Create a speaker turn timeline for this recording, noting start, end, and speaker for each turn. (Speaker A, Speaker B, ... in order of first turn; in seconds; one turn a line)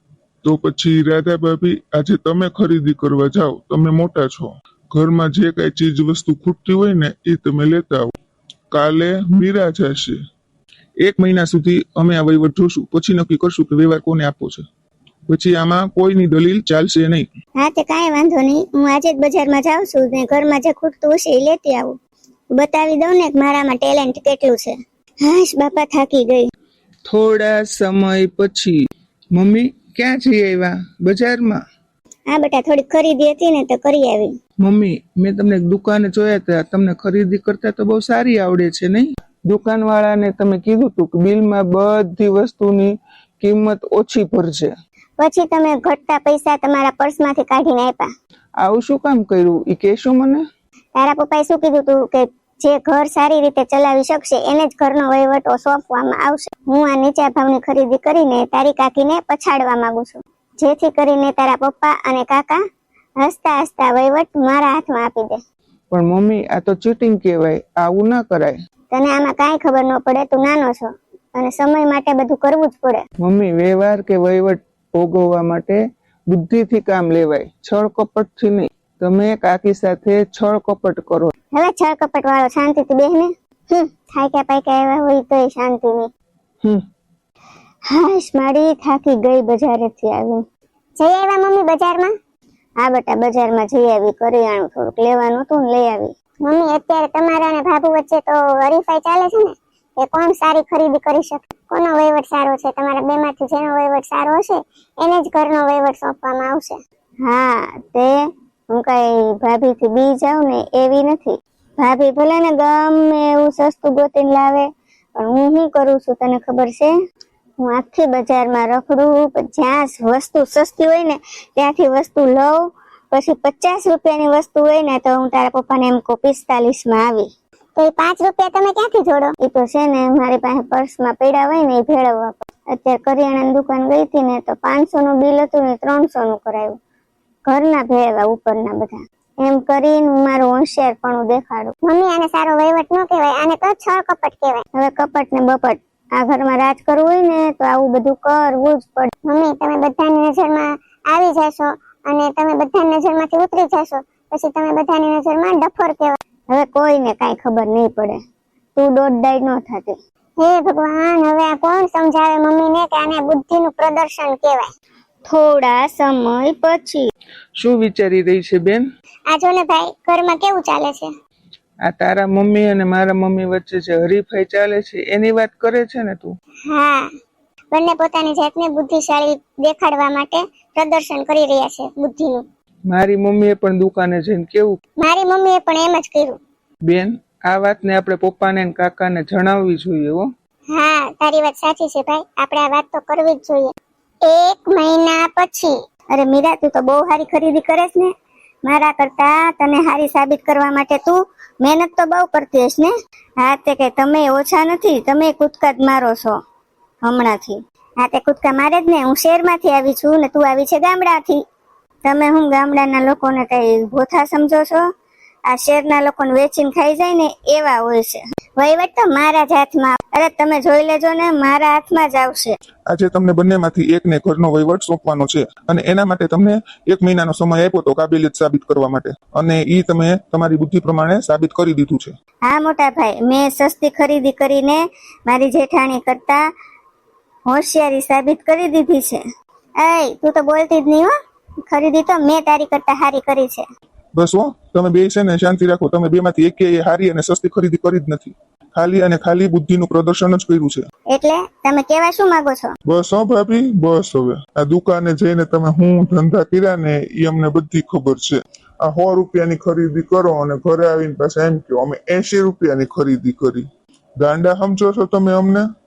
Speaker A: 0.4-8.1
Speaker A: 8.7-10.2
Speaker A: 11.0-14.6
Speaker A: 15.3-17.2
Speaker B: 17.6-21.9
Speaker B: 22.5-26.5
Speaker C: 27.1-31.6
Speaker B: 32.3-34.3
Speaker C: 34.6-44.7
Speaker B: 45.2-48.1
Speaker C: 48.6-50.4
Speaker B: 51.0-62.6
Speaker B: 63.2-65.4
Speaker C: 65.9-68.6
Speaker B: 68.9-73.0
Speaker C: 73.2-81.3
Speaker B: 81.5-86.1
Speaker B: 87.9-90.4
Speaker B: 91.0-92.1
Speaker B: 92.8-108.1
Speaker B: 108.7-114.7
Speaker B: 115.2-116.9
Speaker B: 117.6-122.5
Speaker B: 123.1-136.8
Speaker B: 137.5-158.2
Speaker B: 158.8-164.7
Speaker B: 165.3-167.1
Speaker C: 167.6-168.8
Speaker B: 169.3-171.1
Speaker C: 171.8-176.3
Speaker B: 176.7-177.1
Speaker B: 177.7-182.4
Speaker C: 182.9-184.8
Speaker B: 185.0-186.4
Speaker C: 186.8-190.2
Speaker B: 190.7-193.7
Speaker B: 194.2-198.1
Speaker B: 198.7-206.3
Speaker B: 207.0-211.4
Speaker B: 212.0-214.8
Speaker B: 215.5-222.6
Speaker A: 222.9-232.1
Speaker B: 232.5-236.4
Speaker B: 237.5-239.2
Speaker B: 239.8-241.1
Speaker B: 241.7-243.6
Speaker A: 244.2-250.8
Speaker B: 251.1-252.7
Speaker A: 252.9-263.7
Speaker A: 264.2-265.7